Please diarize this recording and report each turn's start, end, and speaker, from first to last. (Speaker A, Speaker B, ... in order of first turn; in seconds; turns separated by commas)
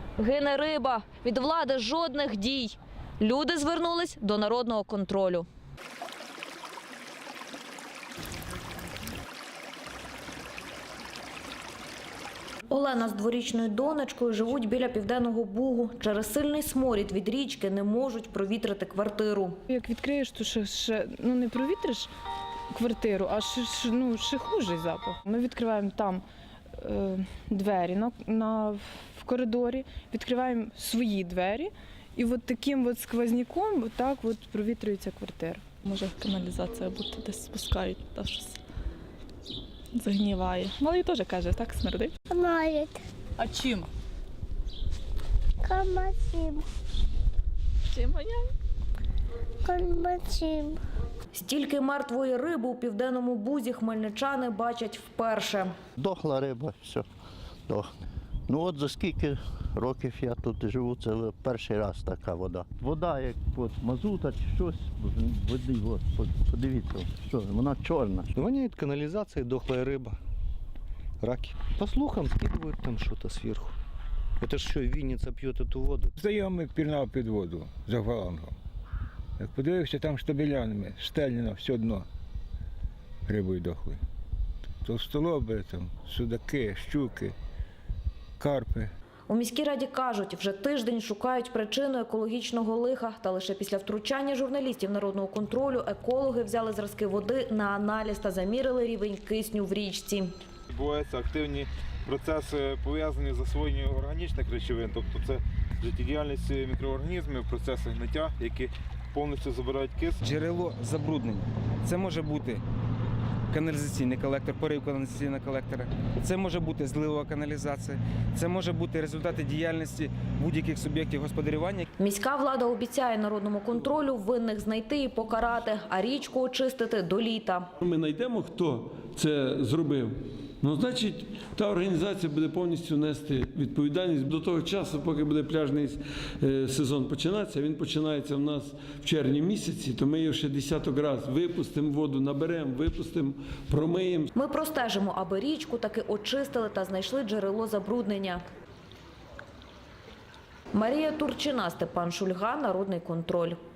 Speaker A: 0.2-5.5, Speaker A: 12.7-19.6, Speaker B: 19.7-22.1, Speaker B: 22.7-26.2, Speaker B: 26.8-35.8, Speaker C: 35.8-38.6, Speaker C: 39.9-42.1, Speaker D: 42.3-43.0, Speaker C: 43.4-43.8, Speaker D: 45.6-46.6, Speaker C: 47.9-48.5, Speaker D: 49.6-50.8, Speaker A: 51.3-55.7, Speaker E: 56.0-57.1, Speaker E: 58.5-68.3, Speaker F: 68.3-70.2, Speaker F: 71.2-73.8, Speaker F: 74.4-76.1, Speaker G: 76.2-78.5, Speaker G: 79.4-82.1, Speaker G: 83.3-84.0, Speaker G: 84.8-87.3, Speaker G: 88.4-88.9, Speaker A: 89.3-100.3, Speaker H: 100.7-110.2, Speaker I: 110.2-112.6, Speaker I: 113.5-121.9, Speaker A: 122.0-127.7, Speaker J: 127.8-144.3, Speaker A: 144.3-148.4, Speaker A: 150.7-153.6